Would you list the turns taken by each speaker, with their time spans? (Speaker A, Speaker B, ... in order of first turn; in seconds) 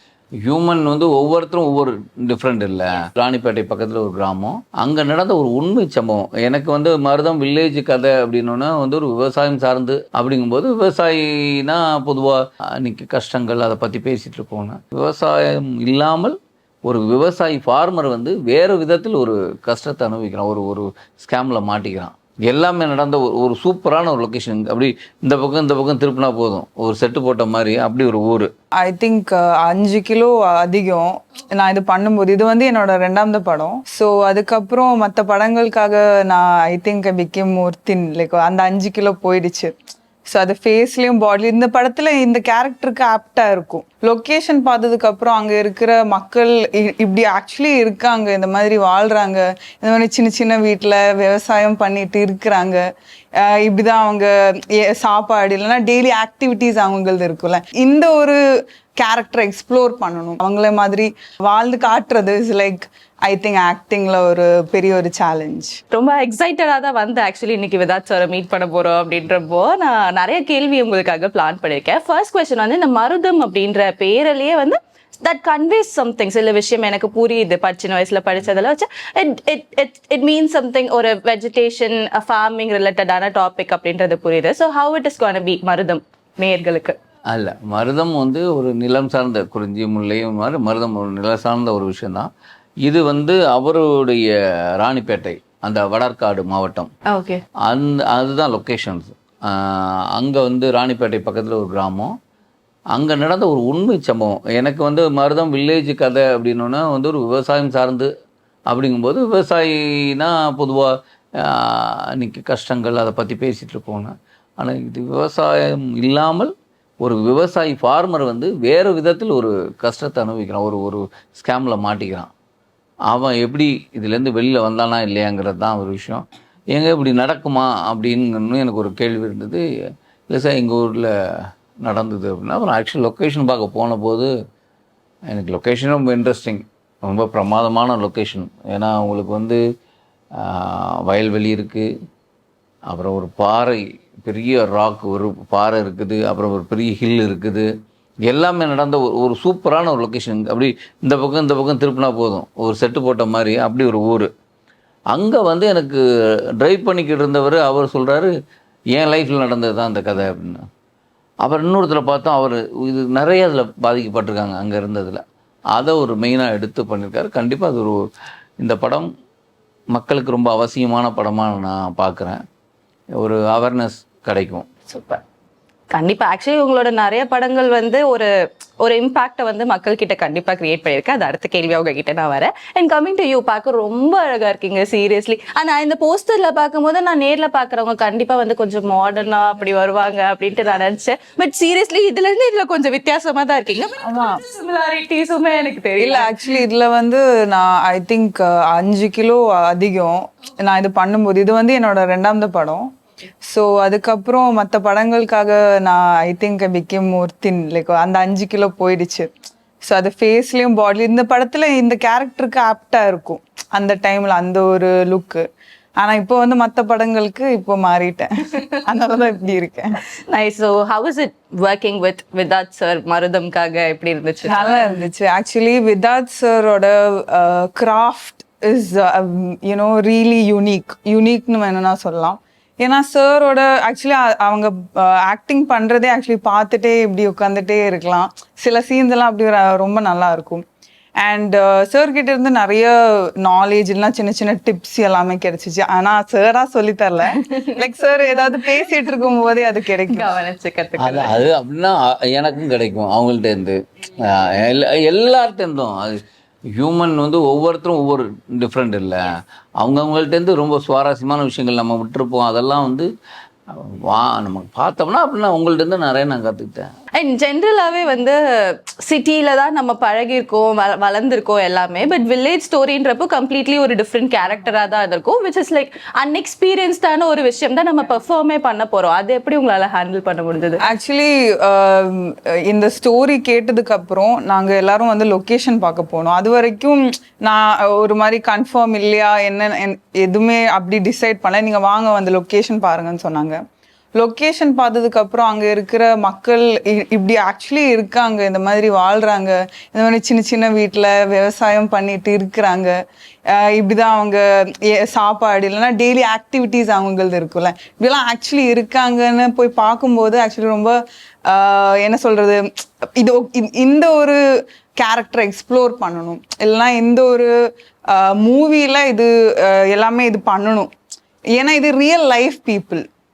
Speaker A: 0.4-28.5, 87.3-92.3, 92.8-96.9, 97.6-102.1, 102.9-108.1, 108.7-122.3, 123.1-129.6, 130.3-134.3, 135.3-139.6, 140.3-141.9, 142.9-147.7, 148.2-154.3, 155.1-156.0, 156.6-158.3, 158.9-160.6, 161.4-165.2, 165.7-168.0, 168.6-169.1, 169.9-172.4, 173.2-174.7, 251.0-256.2, 256.8-263.1, 263.7-266.9
Speaker B: 28.8-39.7, 40.3-52.8, 53.4-58.4, 58.9-65.8, 194.0-194.4, 196.0-202.9, 203.4-209.3, 209.8-215.4, 216.0-220.0, 224.4-240.6, 241.2-250.3, 280.8-293.6, 294.2-302.9, 303.5-314.4, 314.9-317.5, 318.1-320.9, 321.6-323.0
Speaker C: 65.9-87.0, 97.1-97.4, 174.9-175.2, 175.9-178.3, 178.8-196.6, 220.3-225.0, 247.3-248.9, 250.1-251.5, 267.2-280.8